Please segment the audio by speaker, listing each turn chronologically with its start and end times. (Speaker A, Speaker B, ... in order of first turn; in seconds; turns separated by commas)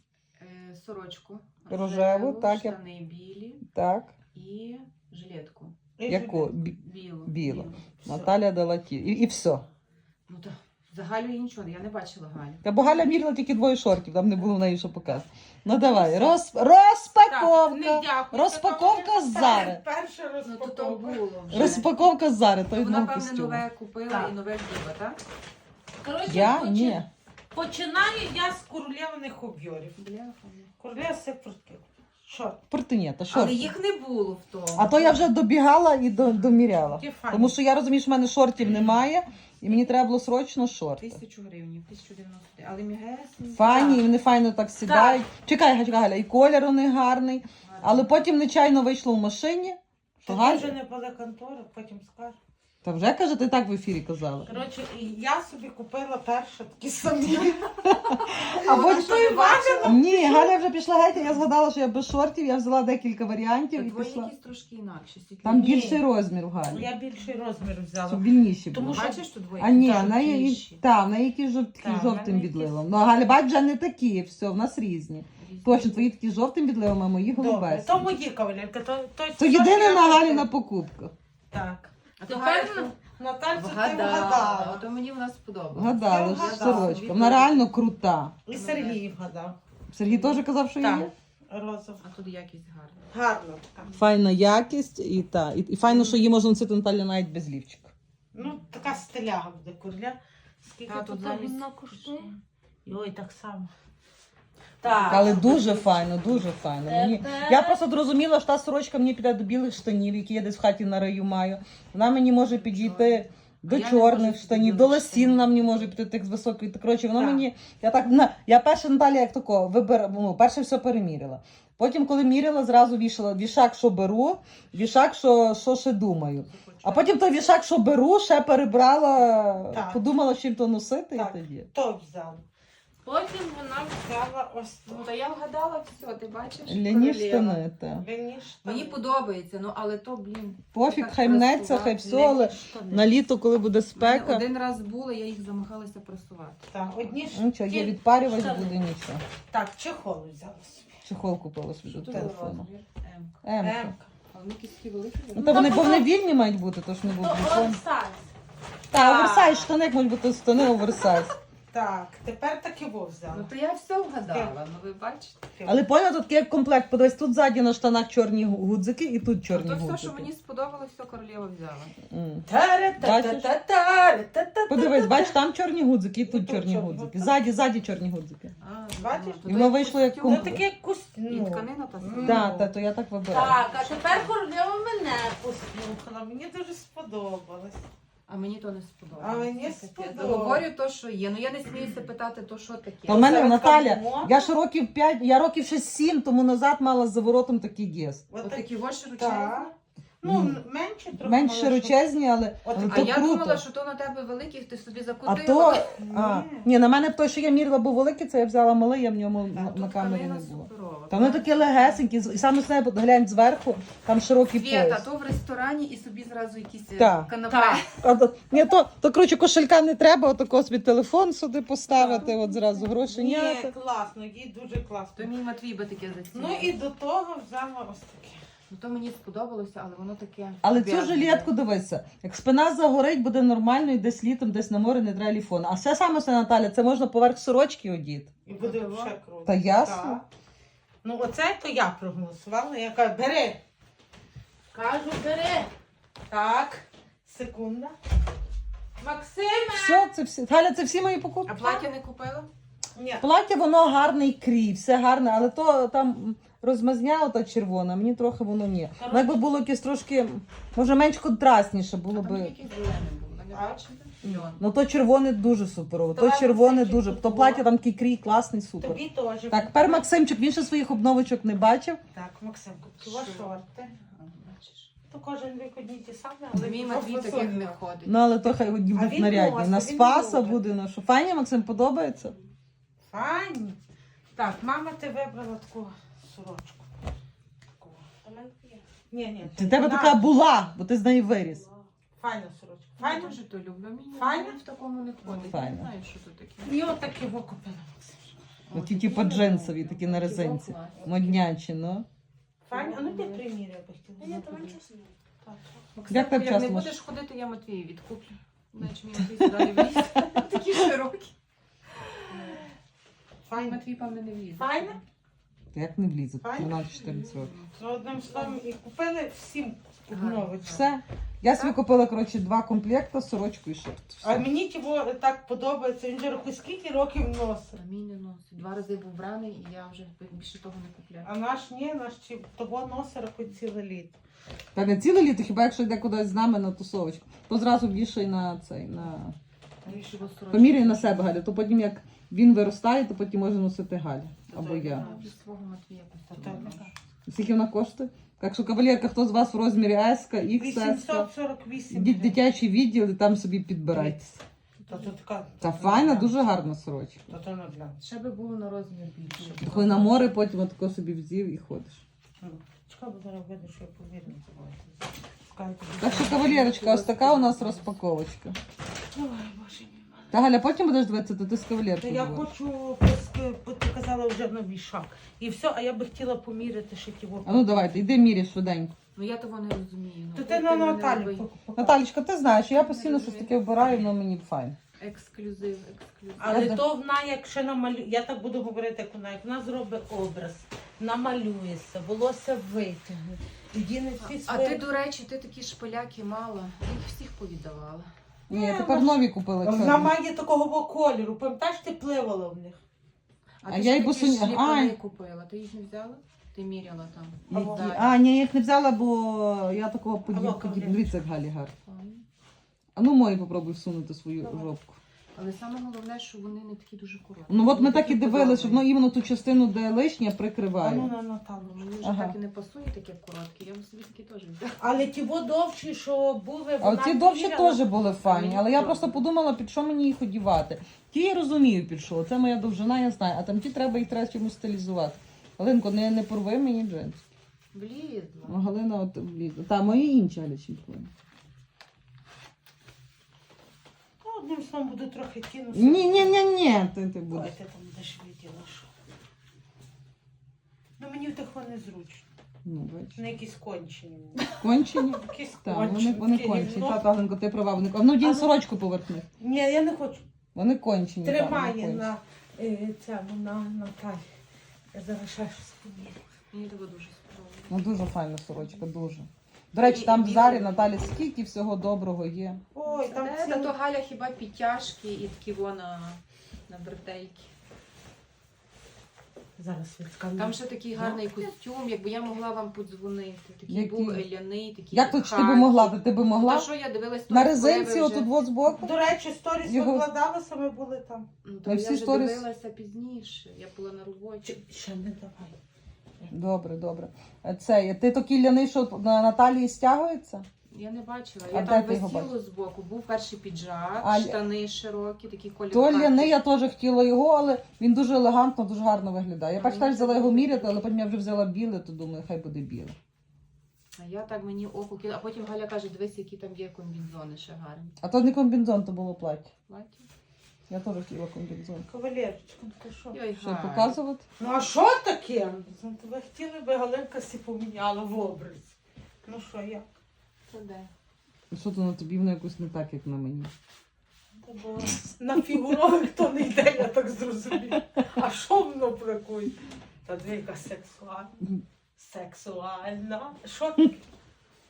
Speaker A: 0.4-3.6, Speaker B: 1.7-2.8, Speaker B: 3.7-4.1, Speaker A: 4.3-5.8, Speaker C: 6.0-6.5, Speaker B: 6.1-9.6, Speaker A: 6.6-7.7, Speaker C: 7.5-8.3, Speaker A: 10.3-13.1, Speaker B: 12.6-19.8, Speaker A: 15.7-16.4, Speaker C: 17.3-21.8, Speaker A: 20.4-21.9, Speaker B: 21.5-23.6, Speaker A: 22.7-25.2, Speaker C: 26.0-29.9, Speaker B: 26.2-27.1, Speaker A: 29.9-30.7, Speaker C: 30.8-32.6, Speaker B: 32.7-33.7, Speaker A: 33.3-35.3, Speaker B: 34.7-41.2, Speaker C: 36.7-37.6, Speaker A: 41.0-44.0, Speaker B: 43.5-50.8, Speaker C: 44.8-45.2, Speaker A: 47.6-48.2, Speaker C: 50.2-52.4, Speaker B: 52.8-54.5, Speaker C: 54.5-57.9, Speaker B: 57.9-64.3, Speaker A: 58.0-60.0, Speaker C: 58.5-60.5, Speaker A: 63.7-65.8, Speaker B: 65.4-66.9, Speaker C: 65.4-66.0, Speaker C: 66.6-70.2, Speaker B: 68.1-78.1, Speaker A: 68.9-70.8, Speaker C: 71.8-72.8, Speaker A: 75.4-76.1, Speaker C: 77.3-80.5, Speaker B: 79.4-81.1, Speaker C: 81.5-84.8, Speaker A: 82.2-82.9, Speaker A: 83.5-87.7, Speaker B: 85.7-88.4, Speaker C: 86.0-87.0, Speaker C: 88.5-89.6, Speaker A: 88.5-89.0, Speaker B: 89.9-91.1, Speaker A: 90.0-90.4, Speaker C: 90.8-92.0, Speaker A: 92.0-93.1, Speaker C: 93.1-93.9, Speaker B: 94.0-97.9, Speaker A: 95.9-96.2, Speaker C: 98.3-102.3, Speaker A: 98.4-98.6, Speaker A: 100.8-102.2, Speaker C: 102.8-103.7, Speaker C: 104.8-105.9, Speaker A: 104.8-105.9, Speaker B: 105.1-131.7, Speaker C: 106.8-107.8, Speaker A: 112.5-115.9, Speaker C: 117.1-117.5, Speaker A: 126.6-127.2, Speaker C: 129.7-130.0, Speaker C: 131.1-132.4, Speaker A: 133.0-134.0, Speaker C: 133.9-135.1, Speaker A: 134.9-137.6, Speaker B: 136.7-138.0, Speaker C: 137.9-139.0, Speaker A: 138.6-142.5, Speaker B: 140.7-144.4, Speaker C: 142.3-143.1, Speaker A: 143.9-147.2, Speaker C: 146.7-148.8, Speaker B: 147.3-149.2, Speaker C: 149.5-151.1, Speaker B: 151.0-152.7, Speaker A: 151.8-153.4, Speaker B: 153.4-153.9, Speaker C: 153.6-154.1, Speaker A: 154.3-155.9, Speaker B: 155.3-157.8, Speaker C: 155.4-156.1, Speaker C: 157.1-158.3, Speaker B: 158.9-161.3, Speaker A: 158.9-159.7, Speaker A: 160.8-161.2, Speaker C: 161.7-163.5, Speaker A: 163.3-165.4, Speaker C: 164.3-164.5, Speaker B: 165.6-170.3, Speaker A: 169.5-171.9, Speaker B: 172.1-172.4, Speaker C: 172.4-175.4, Speaker B: 173.0-173.5, Speaker B: 174.7-178.5, Speaker C: 176.2-177.5, Speaker A: 178.6-180.5, Speaker C: 179.0-179.6, Speaker B: 179.4-180.6, Speaker C: 180.2-182.7, Speaker A: 181.3-182.4, Speaker B: 182.2-183.6, Speaker C: 183.3-187.8, Speaker A: 183.4-184.3, Speaker A: 188.3-193.4, Speaker C: 189.1-190.6, Speaker B: 193.1-198.2, Speaker C: 193.1-194.5, Speaker C: 198.3-202.0, Speaker A: 198.4-199.7, Speaker B: 200.2-200.6, Speaker B: 201.2-203.6, Speaker C: 202.6-203.2, Speaker A: 202.8-205.9, Speaker B: 205.2-215.1, Speaker C: 205.9-206.7, Speaker A: 209.5-212.0, Speaker A: 214.5-218.0, Speaker B: 217.0-217.3, Speaker C: 217.4-217.9, Speaker B: 217.9-223.7, Speaker A: 221.9-223.0, Speaker C: 223.1-225.3, Speaker A: 225.1-226.8, Speaker C: 226.3-228.4, Speaker A: 228.7-231.5, Speaker B: 230.6-238.3, Speaker C: 238.4-240.2, Speaker A: 238.5-239.1, Speaker B: 239.4-240.2, Speaker C: 241.0-243.6, Speaker C: 244.7-245.7, Speaker C: 246.3-247.9, Speaker C: 249.0-250.1, Speaker B: 249.7-251.7, Speaker A: 251.5-252.5, Speaker C: 252.9-253.2, Speaker B: 253.2-262.5, Speaker C: 259.0-259.4, Speaker A: 262.1-264.6, Speaker C: 263.5-264.4, Speaker B: 264.3-272.0, Speaker C: 266.1-267.7, Speaker C: 268.8-270.1, Speaker C: 272.1-273.8, Speaker A: 273.0-274.9, Speaker C: 275.1-277.8, Speaker A: 276.5-278.1, Speaker B: 278.0-282.3, Speaker C: 278.9-280.6, Speaker C: 283.1-283.8, Speaker C: 284.3-286.9, Speaker C: 287.8-290.2, Speaker B: 289.5-291.6, Speaker C: 292.2-293.4, Speaker A: 293.0-296.8, Speaker C: 294.1-294.6, Speaker C: 295.2-295.6, Speaker B: 295.5-295.9, Speaker C: 296.6-298.4, Speaker A: 298.7-301.0, Speaker B: 298.7-302.1, Speaker C: 301.0-301.4, Speaker C: 302.7-304.8, Speaker A: 302.7-303.4, Speaker A: 304.2-304.8, Speaker C: 305.4-305.8, Speaker A: 305.9-311.3, Speaker B: 306.1-307.0, Speaker B: 309.4-309.8, Speaker A: 312.3-312.6, Speaker C: 313.5-313.8, Speaker A: 313.5-315.0, Speaker C: 314.6-315.0, Speaker B: 315.7-317.5, Speaker C: 316.4-316.8, Speaker A: 316.6-318.6, Speaker C: 317.8-320.9, Speaker A: 320.1-320.9, Speaker B: 320.6-324.4, Speaker A: 321.5-321.8, Speaker C: 324.2-327.8, Speaker A: 327.7-331.3, Speaker C: 331.2-334.2, Speaker B: 334.7-339.4, Speaker A: 339.8-341.4, Speaker C: 339.9-340.1, Speaker B: 340.5-345.0, Speaker C: 344.5-345.3, Speaker A: 344.9-346.9, Speaker C: 346.3-346.9, Speaker B: 347.3-351.3, Speaker C: 350.6-352.4, Speaker B: 351.9-354.4, Speaker C: 353.9-354.2, Speaker A: 354.8-355.1, Speaker C: 354.9-356.4, Speaker B: 355.6-357.2, Speaker C: 357.3-358.0, Speaker A: 358.0-360.3, Speaker C: 359.4-360.0, Speaker B: 359.6-362.0, Speaker C: 362.4-366.6, Speaker B: 366.0-368.6, Speaker A: 366.2-367.9, Speaker C: 369.1-370.3, Speaker B: 370.3-372.5, Speaker C: 372.0-378.1, Speaker B: 377.4-378.9, Speaker A: 379.1-381.5, Speaker C: 380.3-382.0, Speaker B: 381.8-384.8, Speaker A: 382.7-384.1, Speaker A: 385.0-386.7, Speaker C: 386.4-394.8, Speaker B: 386.4-386.8, Speaker A: 394.2-398.1, Speaker B: 398.5-400.1, Speaker C: 398.5-402.8, Speaker A: 403.6-408.2, Speaker B: 403.6-404.9, Speaker B: 407.5-411.7, Speaker C: 407.5-407.9, Speaker C: 410.2-411.1, Speaker A: 411.8-412.2, Speaker B: 412.9-415.0, Speaker A: 415.3-418.9, Speaker B: 417.5-421.1, Speaker C: 420.8-421.8, Speaker A: 421.6-424.8, Speaker B: 422.0-422.3, Speaker C: 424.8-429.2, Speaker B: 426.8-437.2, Speaker A: 437.7-438.6, Speaker B: 438.4-441.1, Speaker C: 444.2-446.4, Speaker B: 445.7-447.5, Speaker C: 447.3-448.9, Speaker C: 451.0-452.2, Speaker B: 452.6-453.2, Speaker C: 453.1-454.5, Speaker B: 454.6-459.3, Speaker C: 455.1-457.0, Speaker C: 458.2-458.6, Speaker C: 459.4-460.2, Speaker B: 460.5-462.1, Speaker C: 461.2-464.2, Speaker C: 464.9-466.2, Speaker A: 466.5-467.8, Speaker B: 467.7-472.6, Speaker A: 469.7-471.2, Speaker C: 472.7-473.7, Speaker A: 472.8-477.5, Speaker C: 479.6-481.4, Speaker A: 480.4-488.3, Speaker B: 483.7-484.2, Speaker B: 484.9-486.7, Speaker B: 487.3-488.9, Speaker C: 488.7-491.3, Speaker B: 489.6-490.1, Speaker A: 491.4-494.6, Speaker B: 491.6-492.4, Speaker C: 494.4-495.6, Speaker B: 496.3-500.4, Speaker A: 500.7-506.4, Speaker B: 501.5-502.3, Speaker B: 504.0-504.4, Speaker B: 505.7-512.9, Speaker A: 509.6-510.9, Speaker A: 514.0-518.0, Speaker B: 518.0-519.5, Speaker A: 519.7-520.1, Speaker B: 520.7-521.9, Speaker C: 521.9-523.2, Speaker A: 523.1-524.0, Speaker B: 523.4-524.2, Speaker C: 524.4-529.9, Speaker A: 530.5-530.9, Speaker B: 531.5-533.5, Speaker C: 534.4-541.4, Speaker C: 542.0-543.9